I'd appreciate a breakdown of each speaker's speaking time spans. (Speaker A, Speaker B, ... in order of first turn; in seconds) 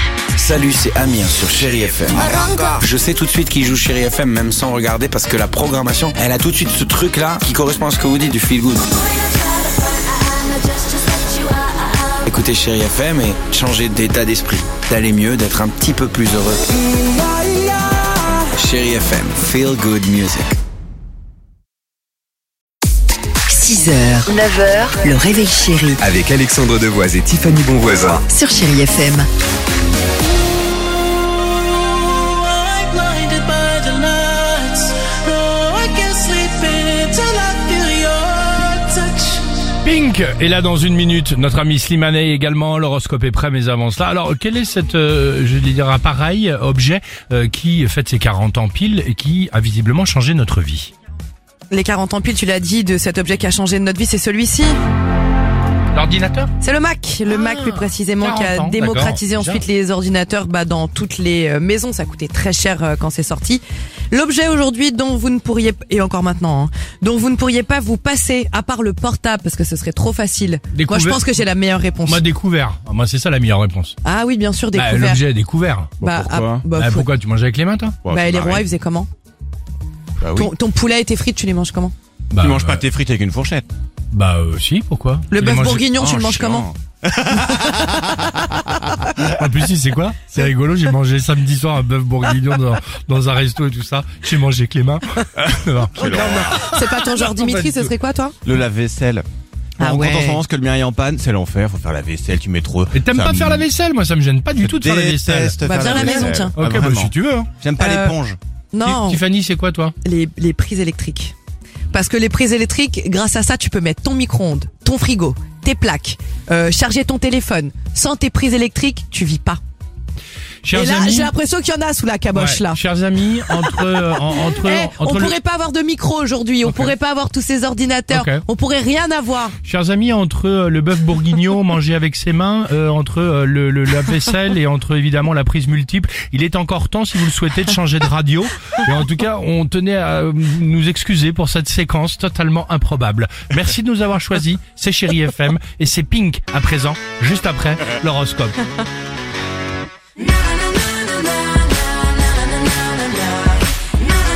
Speaker A: 0.4-8.9, 12.2-16.6, 18.5-20.6
Speaker B: 23.5-26.0, 28.3-29.3
Speaker C: 26.0-28.2
Speaker D: 32.1-39.4
Speaker E: 39.8-50.9, 55.9-56.5, 57.3-59.6, 70.7-71.2, 72.0-74.0, 74.7-76.0, 76.8-78.0, 82.3-82.9, 84.1-85.9, 89.2-97.9, 102.9-107.5, 108.8-109.9, 120.6-121.3, 122.3-125.4, 126.7-126.9, 128.1-128.4, 129.7-148.6
Speaker F: 51.7-54.8, 56.6-72.2, 74.0-75.2, 76.0-77.1, 78.1-79.1, 80.3-81.9, 85.3-86.7, 87.3-87.8, 96.3-98.4, 99.8-100.4, 105.6-106.5, 107.8-108.2, 108.7-109.2, 110.0-111.3, 111.9-119.6, 120.7-122.8, 124.3-129.6
Speaker G: 76.0-76.7, 78.0-78.7, 80.2-80.5, 82.4-83.7, 85.9-88.1, 96.0-96.7, 98.5-99.3, 99.8-103.7, 104.6-108.4